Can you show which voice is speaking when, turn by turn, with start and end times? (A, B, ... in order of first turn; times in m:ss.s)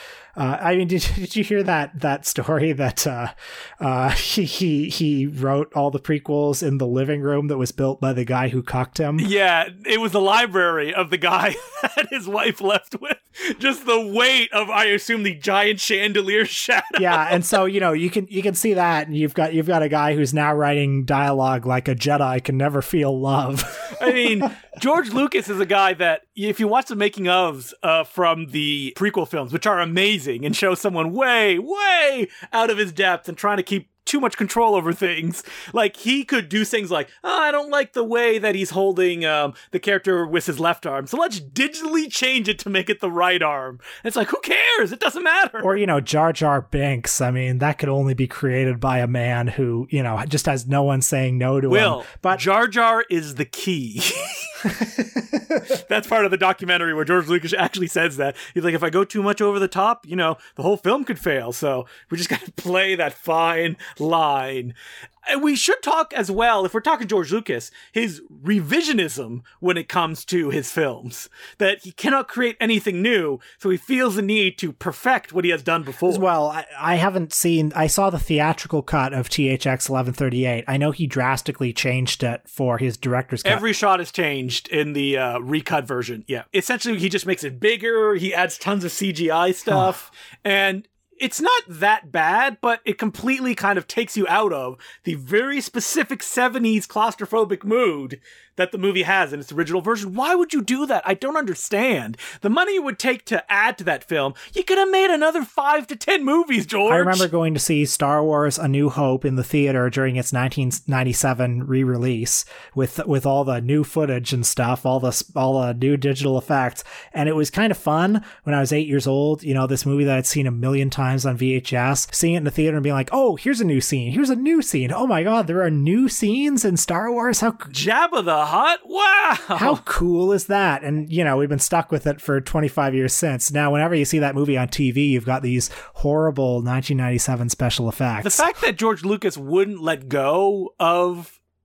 0:00.4-0:09.3 A
0:09.2-0:17.5 B
0:17.0-0:24.5 A
0:23.9-0:45.8 B
0:45.6-0:52.4 A
0:51.7-0:54.6 B
0:54.6-0:55.6 A
0:55.7-1:16.3 B
1:16.1-1:23.6 A
1:23.4-1:47.3 B
1:46.9-2:07.7 A
2:07.7-2:09.8 B
2:09.6-2:18.4 A
2:18.2-2:21.4 B